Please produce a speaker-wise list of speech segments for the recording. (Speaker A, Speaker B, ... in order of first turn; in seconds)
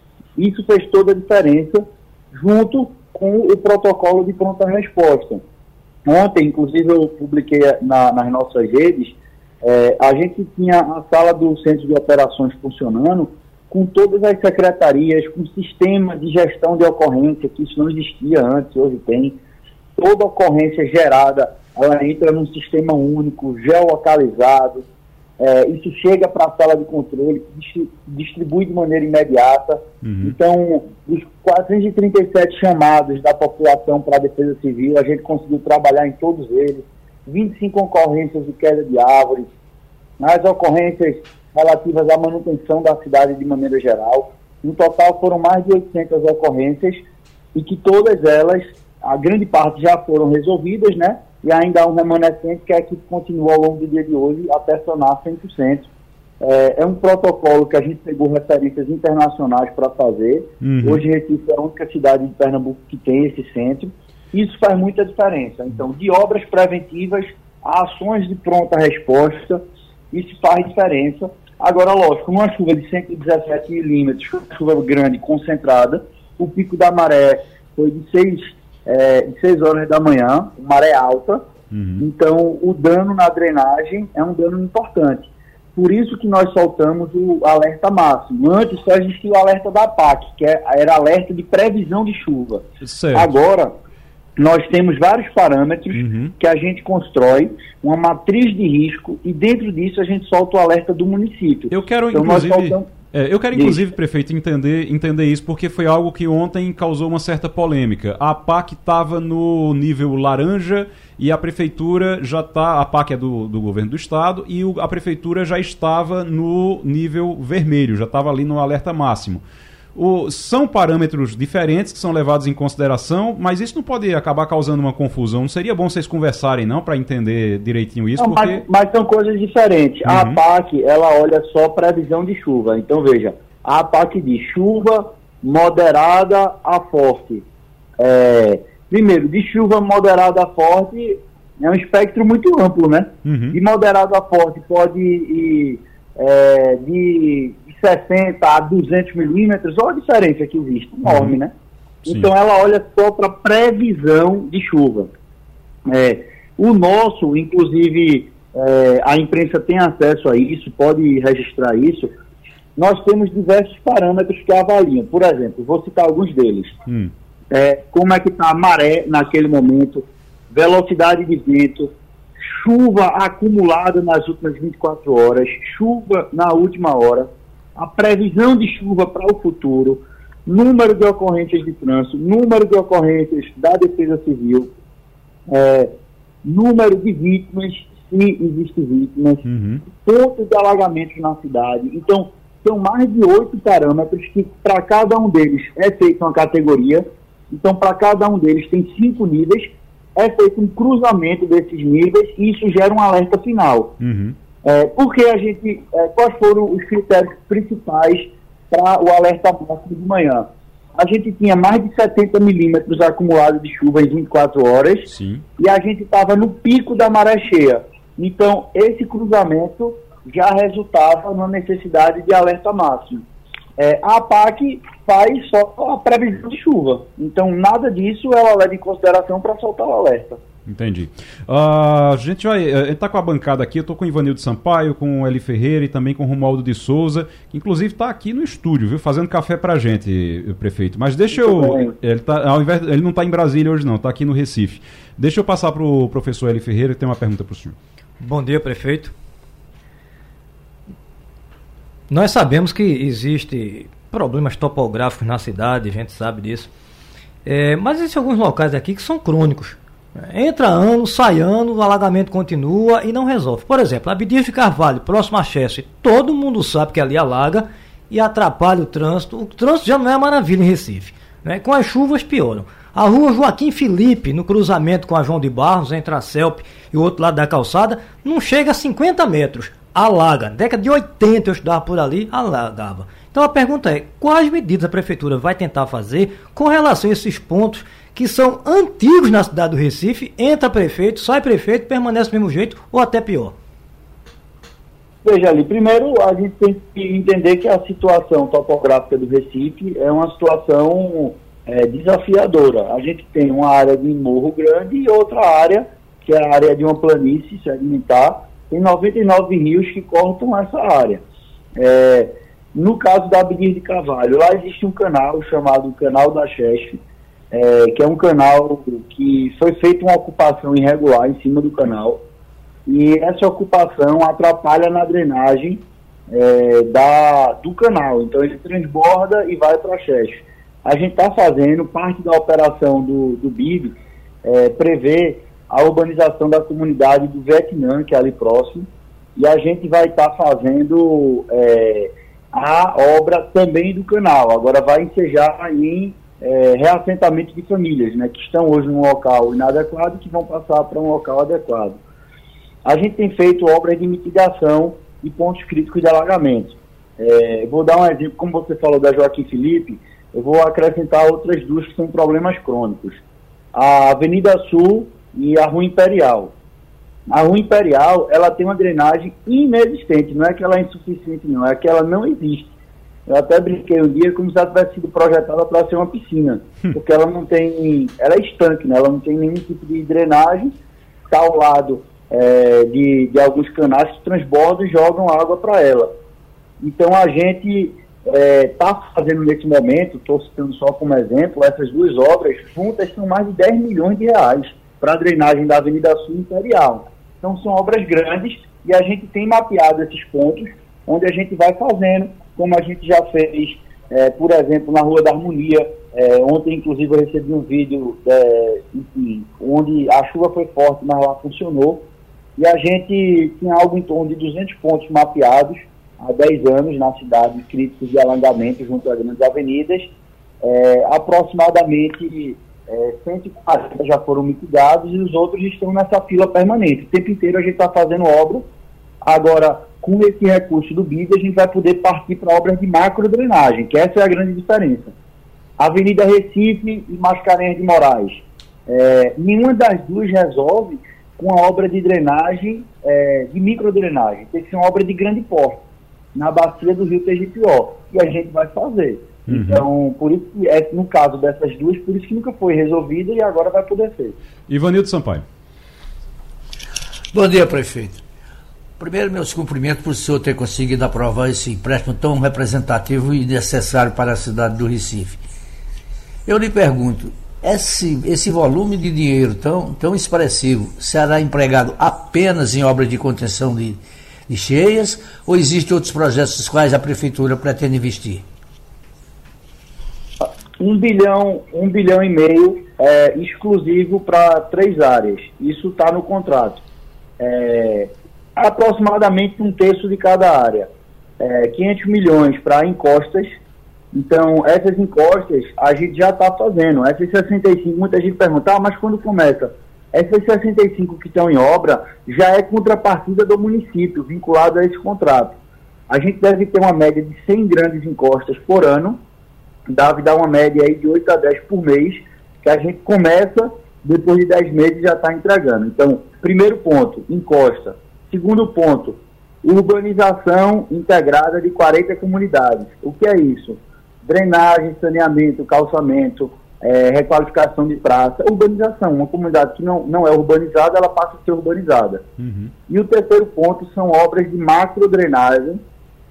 Speaker A: 0.4-5.4, 6.0-19.4, 20.0-24.8, 25.4-39.5, 40.2-47.0, 47.5-55.9, 56.4-81.4, 82.0-93.7, 94.4-102.9, 103.5-103.8, 128.2-137.4, 138.0-151.5, 152.0-155.1, 155.8-162.1, 162.8-166.8, 167.5-171.9, 172.5-184.7, 185.5-203.9, 204.6-223.2, 223.8-230.4, 241.3-241.9, 295.2-311.2, 311.8-317.0, 317.5-322.2, 322.9-352.0, 352.8-363.2, 363.7-366.5, 367.3-372.7, 373.3-380.7, 381.3-386.1, 386.8-412.1, 412.6-428.7, 429.2-435.1, 435.8-445.8, 446.3-454.4, 480.4-486.8, 487.4-493.5, 494.1-505.6, 506.1-509.2, 509.9-532.2, 532.9-535.8
Speaker B: 30.0-30.4, 60.6-61.0, 81.7-82.0, 92.8-93.3, 95.9-96.3, 101.7-119.4, 119.9-128.6, 130.1-130.4, 143.2-143.6, 151.0-151.3, 166.9-167.1, 189.4-189.8, 204.0-204.3, 215.1-215.4, 230.7-247.8, 449.5-449.9, 454.7-455.4, 532.4-532.7
Speaker C: 248.2-249.1, 252.1-256.7, 257.4-293.5
Speaker D: 457.3-458.2, 459.0-465.4, 466.4-478.4